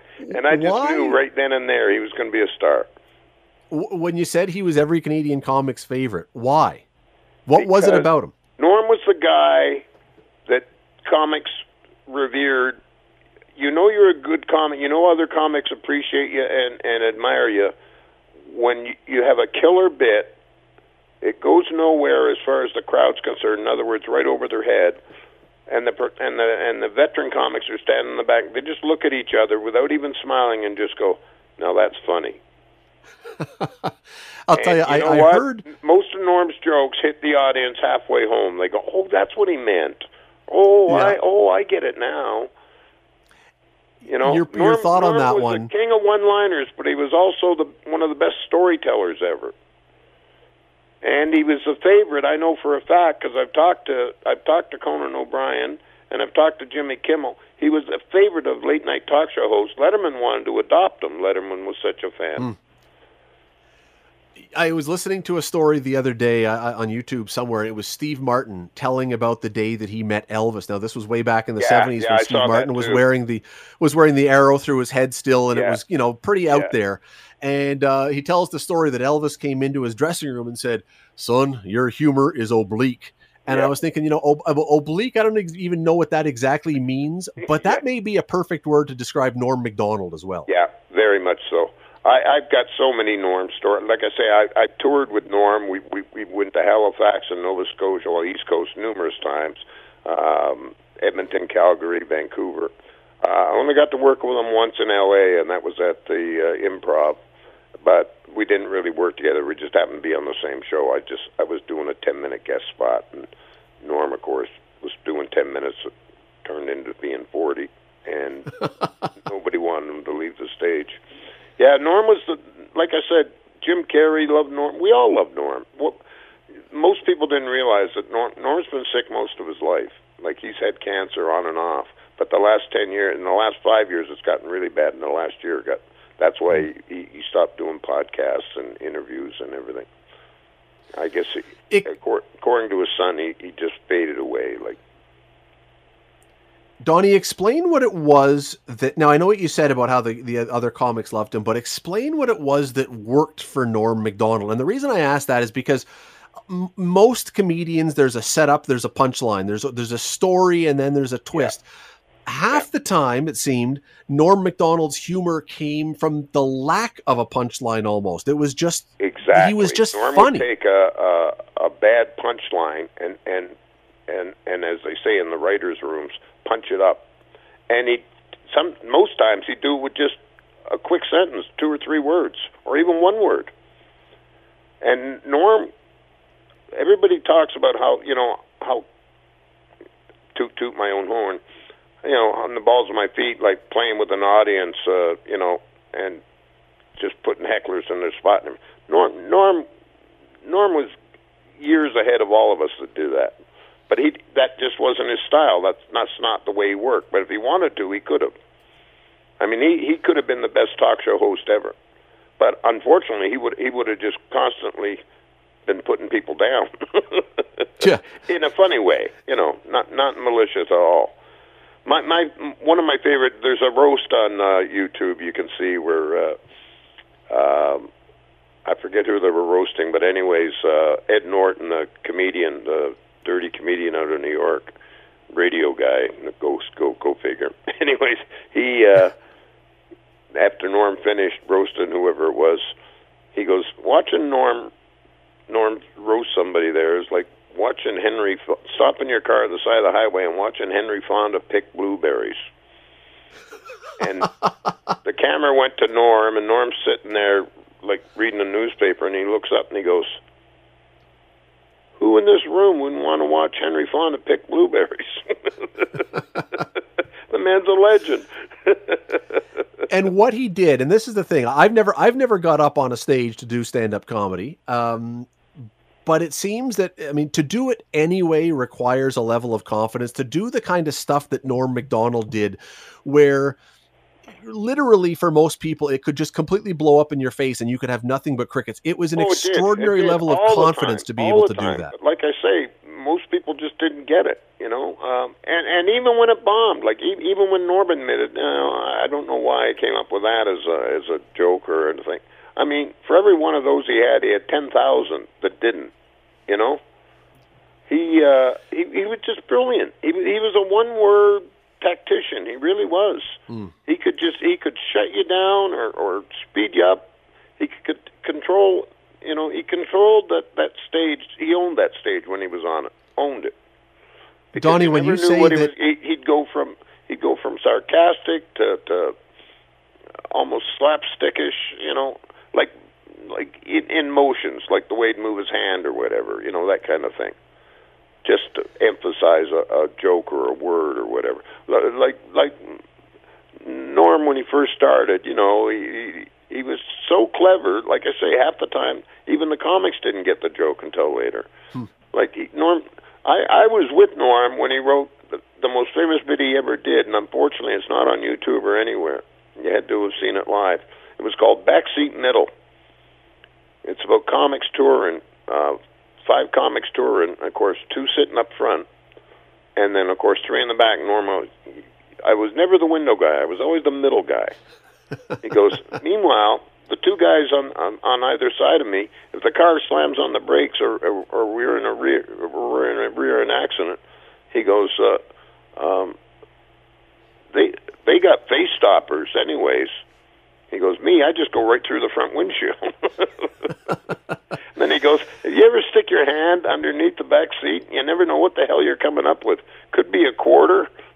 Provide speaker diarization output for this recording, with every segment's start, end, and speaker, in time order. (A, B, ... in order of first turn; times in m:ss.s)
0:00.2-0:01.2 A
0:00.3-0:02.9 B
0:03.7-0:06.8 A
0:07.5-0:08.3 A
0:07.6-0:09.8 B
0:10.5-0:12.8 B
0:13.6-0:17.7 B
0:18.5-0:20.4 B
0:21.2-0:25.0 B
0:25.7-0:32.4 B
0:33.6-0:33.9 A
0:34.5-0:35.6 A
0:34.6-0:42.5 B
0:40.9-0:41.2 A
0:44.0-0:49.6 B
0:44.2-0:45.7 A
0:51.0-1:02.5 B
1:04.4-1:30.5 A
1:11.6-1:13.0 B
1:15.5-1:15.8 B
1:27.5-1:27.8 B
1:30.5-1:47.2 B
1:47.8-1:53.3 B
1:53.8-1:55.9 B
1:56.4-2:01.0 B
2:01.6-2:06.0 B
2:06.7-2:19.9 B
2:21.0-2:24.8 B
2:26.8-2:35.9 A
2:36.5-2:41.6 A
2:42.3-2:50.5 A
2:49.0-2:53.6 B
2:54.1-2:57.0 B
2:57.7-3:03.5 B
3:04.8-3:05.7 B
3:06.7-3:08.8 B
3:10.3-3:11.4 B
3:12.0-3:16.2 B
3:17.0-3:19.7 B
3:20.4-3:20.9 B
3:21.6-3:23.4 B
3:23.9-3:28.3 B
3:29.4-3:31.8 B
3:32.4-3:35.0 B
3:35.7-3:41.2 B
3:37.8-3:38.1 A
3:41.8-3:46.4 B
3:47.3-3:47.9 B
3:48.6-3:54.8 B
3:55.3-3:59.1 B
4:00.3-4:02.7 B
4:03.3-4:04.7 B
4:05.5-4:12.4 B
4:14.0-4:14.4 B
4:15.0-4:20.2 B
4:22.0-4:26.6 B
4:27.3-4:29.4 B
4:29.9-4:35.3 A
4:36.1-4:43.6 A
4:44.4-4:51.9 A
4:49.2-5:05.9 B
5:06.5-5:06.8 B
5:07.9-5:17.1 B
5:17.6-5:23.5 B
5:24.5-5:29.2 B
5:24.6-5:25.7 A
5:30.3-5:37.4 B
5:38.2-5:42.8 B
5:43.6-5:51.5 B
5:52.1-6:02.5 B
6:03.8-6:08.9 B
6:09.8-6:11.7 B
6:12.2-6:14.6 B
6:15.4-6:24.0 B
6:24.5-6:25.2 B
6:25.8-6:26.2 B
6:27.5-6:30.0 B
6:30.7-6:33.7 B
6:34.8-6:40.9 B